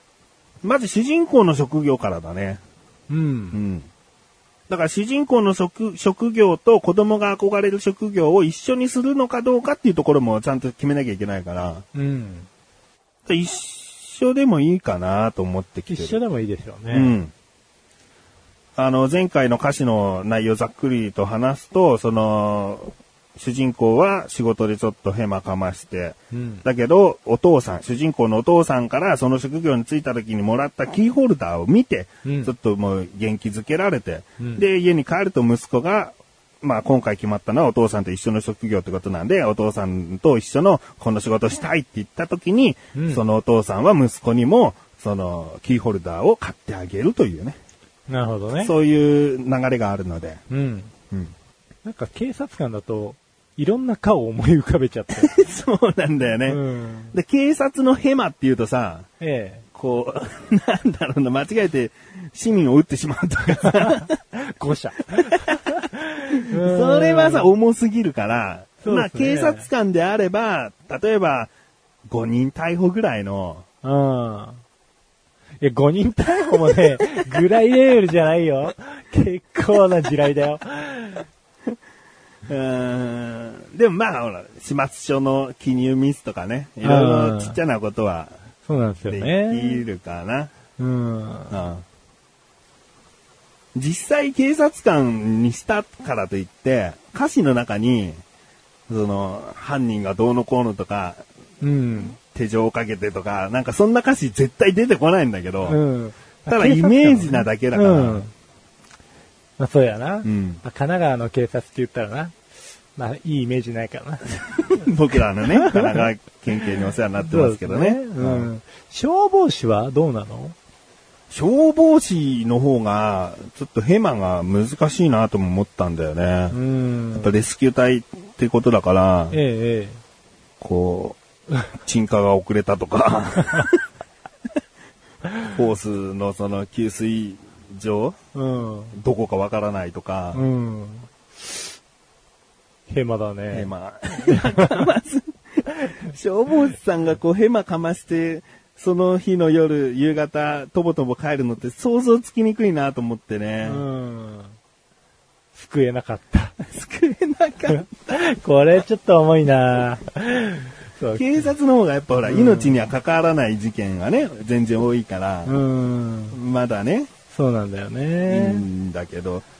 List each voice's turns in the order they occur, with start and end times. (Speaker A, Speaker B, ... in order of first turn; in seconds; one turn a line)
Speaker A: 0.6-2.6
Speaker B: 3.1-3.6
Speaker A: 3.5-3.9
Speaker A: 4.7-11.8
Speaker B: 11.9-12.5
Speaker A: 13.2-16.2
Speaker B: 15.9-17.1
Speaker A: 16.9-17.3
Speaker A: 18.8-47.6
Speaker B: 26.3-26.6
Speaker B: 32.2-32.5
Speaker B: 42.9-43.2
Speaker B: 48.1-48.7
Speaker A: 48.6-50.4
Speaker B: 50.5-50.9
Speaker B: 51.8-55.4
Speaker A: 55.2-56.6
Speaker B: 56.5-57.1
Speaker A: 57.1-59.1
Speaker B: 59.2-59.6
Speaker A: 59.7-64.2
Speaker B: 63.6-67.5
Speaker A: 65.1-65.6
Speaker A: 66.3-71.5
Speaker B: 68.8-69.7
Speaker A: 72.1-73.7
Speaker B: 73.8-74.6
Speaker B: 75.6-81.2
Speaker A: 82.5-88.3
Speaker B: 86.8-87.6
Speaker B: 88.7-89.8
Speaker A: 89.1-90.5
Speaker B: 90.8-91.5
Speaker A: 91.5-91.8
Speaker A: 93.7-98.2
Speaker A: 98.9-101.2
Speaker B: 101.6-102.2
Speaker A: 102.2-105.8
Speaker B: 105.6-108.3
Speaker A: 106.5-108.2
Speaker B: 109.6-112.3
Speaker A: 110.2-110.6
Speaker B: 113.0-114.4
Speaker A: 114.7-118.5
Speaker B: 115.4-116.0
Speaker B: 117.2-120.5
Speaker A: 121.3-126.6
Speaker B: 126.5-127.3
Speaker A: 127.2-129.4
Speaker B: 129.3-130.0
Speaker A: 130.6-131.2
Speaker A: 131.8-133.8
Speaker A: 135.4-138.2
Speaker B: 138.3-138.9
Speaker A: 138.9-140.4
Speaker B: 140.3-141.1
Speaker B: 142.9-144.9
Speaker A: 143.5-153.8
Speaker B: 153.6-154.6
Speaker B: 155.5-156.6
Speaker A: 156.7-157.9
Speaker B: 157.7-161.4
Speaker A: 161.2-165.6
Speaker B: 162.2-162.8
Speaker B: 165.4-166.4
Speaker A: 166.3-167.1
Speaker B: 167.3-168.6
Speaker A: 168.3-169.4